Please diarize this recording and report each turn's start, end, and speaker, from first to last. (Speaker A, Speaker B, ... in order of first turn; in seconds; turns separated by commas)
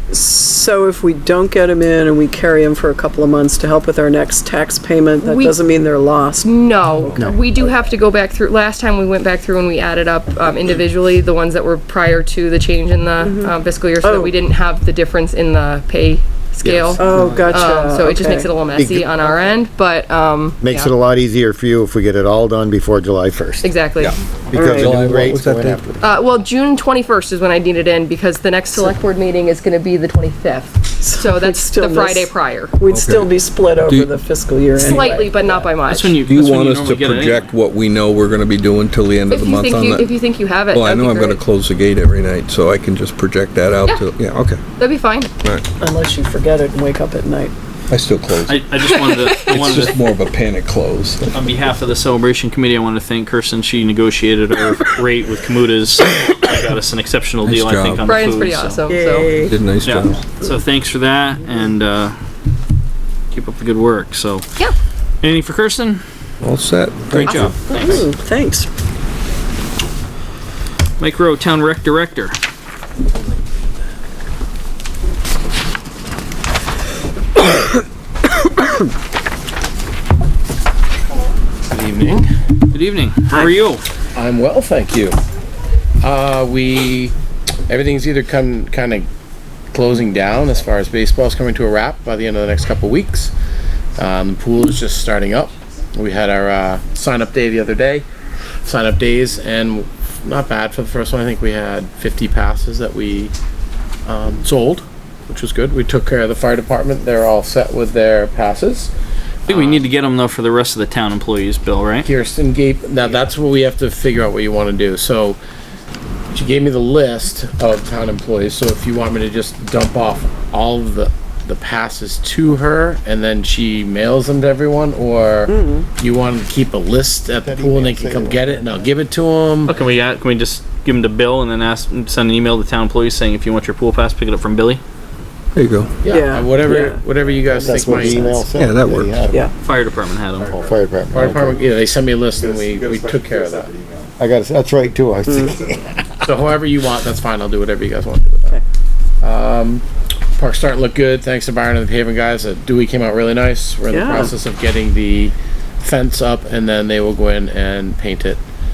Speaker A: 0.1-7.8, Speaker B: 5.2-5.6, Speaker B: 6.4-20.9, Speaker A: 13.2-14.3, Speaker C: 16.6-17.4, Speaker A: 17.0-18.5, Speaker C: 18.7-19.1, Speaker C: 20.6-23.7, Speaker B: 23.6-24.2, Speaker D: 24.0-25.8, Speaker C: 24.5-26.0, Speaker A: 24.5-24.9, Speaker B: 26.0-32.7, Speaker A: 31.0-35.6, Speaker D: 32.8-34.1, Speaker B: 34.8-36.2, Speaker E: 35.9-37.5, Speaker D: 36.2-44.6, Speaker B: 39.3-41.4, Speaker B: 44.8-45.3, Speaker A: 45.8-47.5, Speaker D: 47.9-48.7, Speaker E: 48.5-50.0, Speaker B: 48.9-49.8, Speaker D: 49.3-51.5, Speaker E: 51.3-58.8, Speaker D: 57.4-58.4, Speaker B: 58.0-59.3, Speaker A: 58.9-59.5, Speaker D: 59.4-60.2, Speaker E: 59.8-62.1, Speaker E: 63.3-64.4, Speaker E: 65.2-66.0, Speaker D: 66.4-67.5, Speaker E: 67.1-68.1, Speaker B: 67.2-67.5, Speaker A: 67.5-68.7, Speaker E: 71.0-72.3, Speaker F: 81.7-82.3, Speaker E: 81.8-83.8, Speaker F: 84.1-85.2, Speaker F: 86.0-87.1, Speaker F: 87.7-89.1, Speaker F: 89.7-93.3, Speaker F: 94.0-98.0, Speaker F: 98.6-103.3, Speaker F: 104.0-108.9, Speaker F: 109.4-109.8, Speaker E: 109.5-112.1, Speaker F: 112.0-115.4, Speaker F: 116.3-129.8, Speaker A: 125.5-125.9, Speaker C: 127.3-129.0, Speaker E: 129.6-134.8, Speaker D: 135.5-136.0, Speaker F: 136.0-138.4, Speaker A: 136.1-138.5, Speaker C: 137.5-139.4, Speaker D: 138.5-139.2, Speaker E: 139.6-140.5, Speaker C: 140.5-141.6, Speaker F: 141.1-143.8, Speaker C: 144.2-146.0, Speaker A: 145.3-145.5, Speaker F: 146.2-148.6, Speaker F: 149.2-149.8, Speaker F: 150.3-158.4, Speaker A: 153.9-154.3